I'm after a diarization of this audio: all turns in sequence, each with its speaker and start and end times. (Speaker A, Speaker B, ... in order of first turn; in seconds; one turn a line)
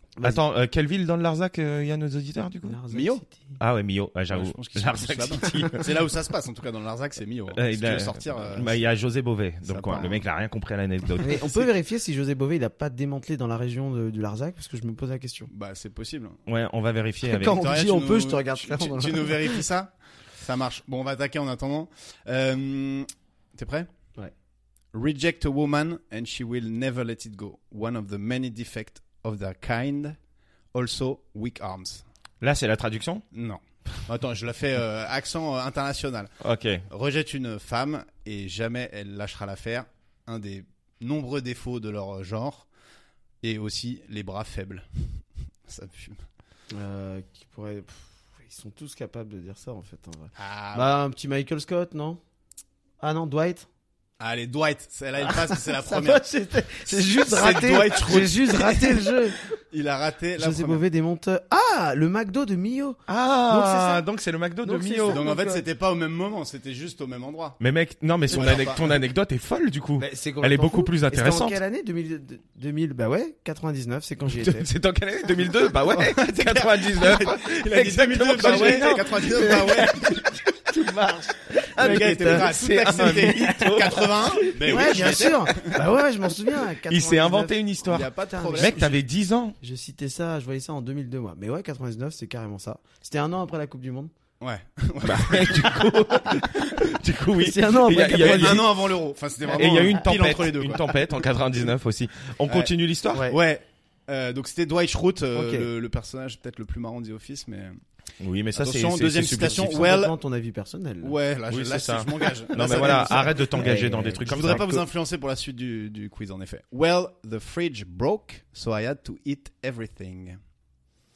Speaker A: 0.1-0.4
Speaker B: 0.2-2.8
Speaker A: 2.6-3.6
Speaker C: 2.9-3.2
Speaker B: 3.6-6.0
Speaker C: 4.3-8.8
Speaker B: 7.5-11.4
Speaker C: 9.7-10.2
Speaker A: 11.2-15.5
Speaker C: 11.2-11.6
Speaker C: 15.5-16.4
Speaker B: 16.5-17.6
Speaker A: 17.2-19.6
Speaker C: 17.5-23.9
Speaker C: 24.9-30.1
Speaker C: 30.7-32.0
Speaker B: 32.4-33.2
Speaker C: 33.3-36.3
Speaker B: 36.4-36.8
Speaker C: 36.9-42.6
Speaker C: 43.4-45.0
Speaker C: 45.7-46.2
Speaker A: 46.7-52.2
Speaker C: 50.4-50.9
Speaker A: 53.0-53.7
Speaker C: 54.2-56.2
Speaker A: 55.2-59.4
Speaker C: 56.9-60.8
Speaker A: 60.4-64.0
Speaker B: 63.1-65.2
Speaker A: 64.6-65.6
Speaker C: 65.1-67.6
Speaker B: 67.6-71.6
Speaker C: 68.3-69.0
Speaker A: 68.3-68.6
Speaker A: 70.0-74.7
Speaker B: 74.3-79.8
Speaker C: 75.9-80.2
Speaker A: 78.4-84.0
Speaker B: 81.7-85.4
Speaker C: 81.8-85.8
Speaker A: 84.6-88.8
Speaker B: 86.8-89.6
Speaker C: 87.8-89.0
Speaker A: 89.6-94.1
Speaker C: 94.4-95.8
Speaker B: 95.0-98.7
Speaker A: 96.1-96.4
Speaker A: 97.3-98.7
Speaker C: 98.1-100.9
Speaker A: 99.5-100.0
Speaker B: 99.5-103.3
Speaker C: 102.5-102.7
Speaker C: 103.3-107.8
Speaker A: 105.3-105.7
Speaker B: 108.2-109.9
Speaker C: 108.5-110.1
Speaker A: 109.4-111.2
Speaker C: 111.0-113.7
Speaker B: 111.5-114.8
Speaker A: 112.5-114.7
Speaker C: 114.2-120.4